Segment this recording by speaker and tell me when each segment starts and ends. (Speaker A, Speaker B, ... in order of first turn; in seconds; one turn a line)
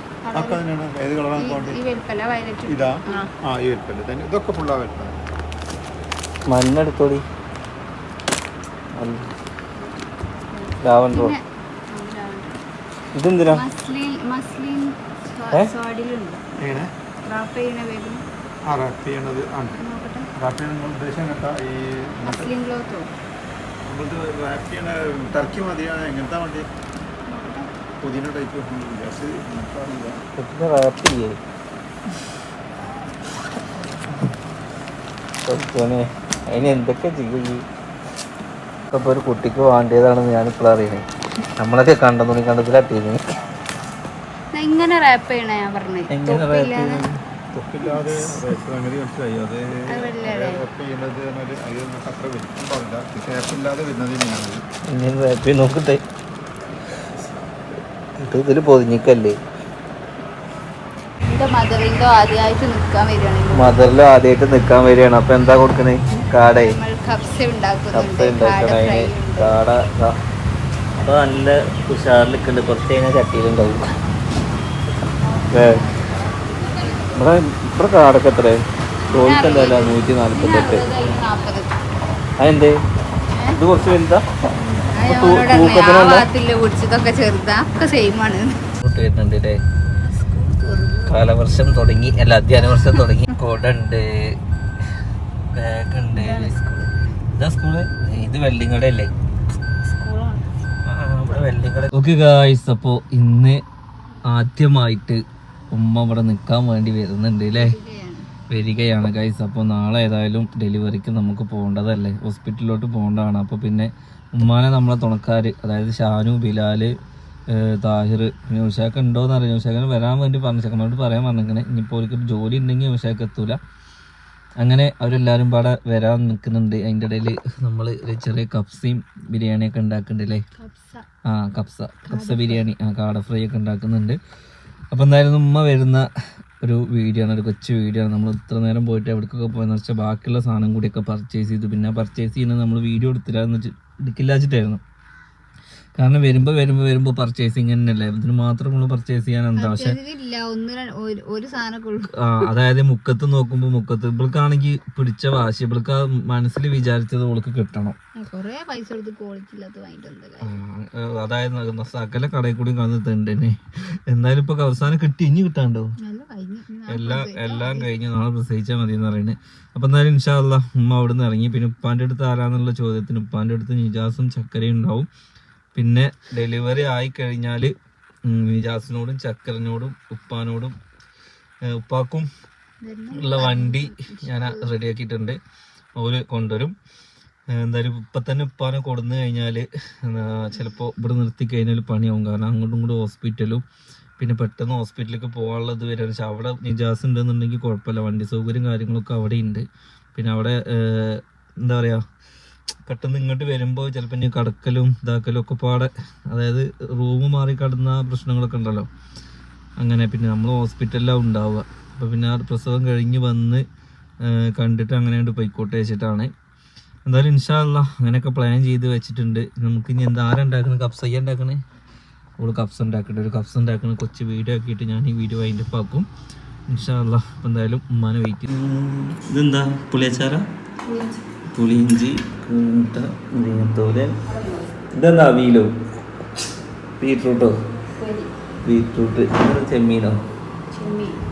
Speaker A: 0.2-0.6
Speaker B: 0.4-1.8
Speaker A: 1.4-3.3
Speaker B: 3.5-5.1
Speaker C: 6.5-7.2
Speaker C: 8.9-9.3
Speaker A: 10.5-12.6
Speaker C: 10.8-11.4
Speaker C: 13.1-13.7
Speaker A: 13.5-16.4
Speaker B: 16.6-16.9
Speaker A: 17.3-18.2
Speaker B: 18.7-19.8
Speaker A: 19.8-20.3
Speaker B: 20.4-22.5
Speaker A: 22.2-23.1
Speaker B: 23.9-26.7
Speaker A: 27.3-27.7
Speaker B: 28.0-30.2
Speaker C: 30.4-31.4
Speaker C: 35.5-37.6
Speaker C: 38.9-41.0
Speaker C: 41.6-43.2
Speaker A: 44.5-47.0
Speaker C: 46.1-47.2
Speaker B: 47.6-54.6
Speaker A: 49.9-50.7
Speaker C: 54.9-56.0
Speaker C: 58.2-59.4
Speaker A: 61.3-63.8
Speaker C: 63.5-66.8
Speaker A: 66.4-69.5
Speaker C: 67.9-70.2
Speaker C: 71.0-73.9
Speaker C: 75.5-75.9
Speaker C: 77.1-80.9
Speaker A: 79.1-81.7
Speaker C: 82.4-82.8
Speaker A: 83.3-83.6
Speaker C: 83.6-84.2
Speaker A: 84.6-88.6
Speaker C: 85.0-86.3
Speaker C: 88.8-89.6
Speaker A: 90.0-91.1
Speaker C: 91.0-94.4
Speaker C: 95.5-96.6
Speaker A: 96.2-96.9
Speaker C: 97.3-99.1
Speaker A: 99.8-100.5
Speaker C: 100.8-103.6
Speaker C: 104.3-105.2
Speaker C: 105.7-107.8
Speaker A: 107.6-108.3
Speaker C: 108.5-116.9
Speaker C: 117.5-123.6
Speaker C: 124.6-130.4
Speaker A: 130.6-131.1
Speaker C: 131.2-134.2
Speaker A: 132.1-132.6
Speaker C: 134.9-136.1
Speaker C: 136.6-144.8
Speaker C: 146.0-150.0
Speaker A: 149.6-152.2
Speaker C: 152.1-158.0
Speaker A: 158.2-160.6
Speaker C: 160.4-165.9
Speaker A: 166.0-167.9
Speaker C: 166.9-175.1
Speaker C: 175.8-177.7
Speaker C: 178.3-180.7
Speaker C: 181.7-182.3
Speaker A: 182.8-184.8
Speaker C: 183.1-185.4
Speaker C: 186.0-186.7
Speaker C: 187.5-193.6
Speaker C: 194.2-202.0
Speaker C: 202.9-208.9
Speaker C: 209.8-213.6
Speaker C: 214.2-216.3
Speaker C: 217.1-221.6
Speaker C: 222.4-226.1
Speaker C: 226.7-230.4
Speaker A: 230.9-231.2
Speaker C: 231.5-234.2
Speaker A: 234.3-234.7
Speaker C: 234.9-235.7
Speaker C: 237.0-237.5
Speaker A: 238.0-238.3
Speaker C: 238.6-240.2
Speaker A: 240.7-241.2